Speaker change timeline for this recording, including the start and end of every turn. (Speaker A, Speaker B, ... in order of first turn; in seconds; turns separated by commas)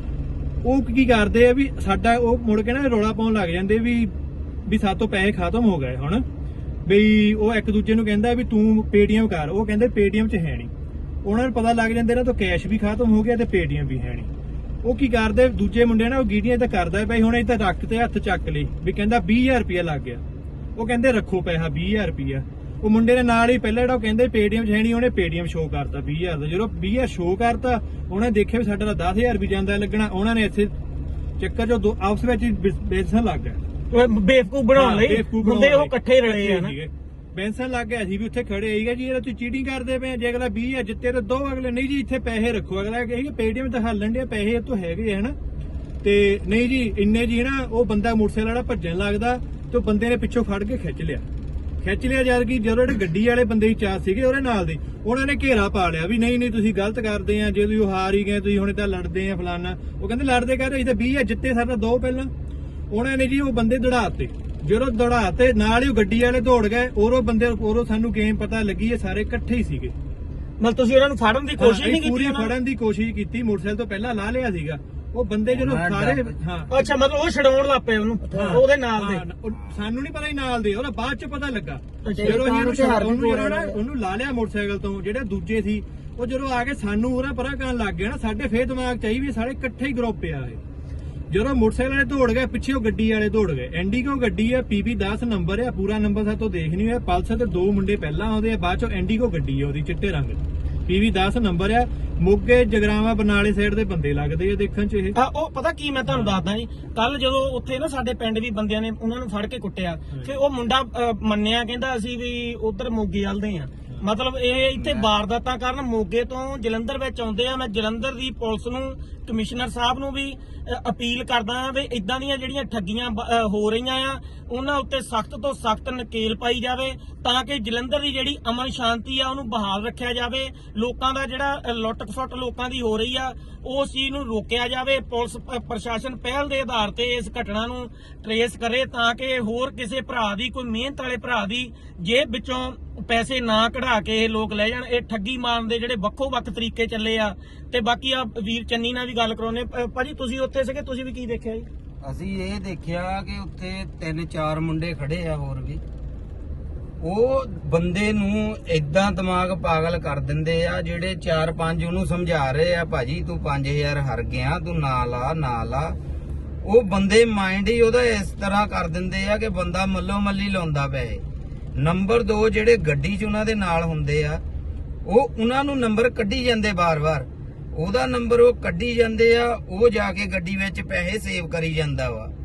Speaker A: 0.6-4.1, Speaker A: 4.7-6.2, Speaker A: 6.8-10.7, Speaker A: 11.2-14.3, Speaker A: 14.8-20.2, Speaker A: 20.8-30.8, Speaker A: 31.4-33.6, Speaker B: 33.9-36.7, Speaker A: 34.7-45.4, Speaker A: 46.0-51.2, Speaker A: 51.8-62.3, Speaker A: 62.9-69.9, Speaker B: 70.6-72.5, Speaker A: 71.6-76.7, Speaker C: 75.5-76.3, Speaker B: 76.7-79.2, Speaker A: 78.3-90.6, Speaker B: 82.0-82.5, Speaker C: 82.1-83.8, Speaker A: 91.3-105.2, Speaker B: 105.1-151.7, Speaker A: 106.1-106.4, Speaker C: 114.8-115.1, Speaker C: 152.0-155.8, Speaker C: 157.0-166.0, Speaker C: 166.6-171.2, Speaker C: 171.8-174.4, Speaker C: 175.1-182.3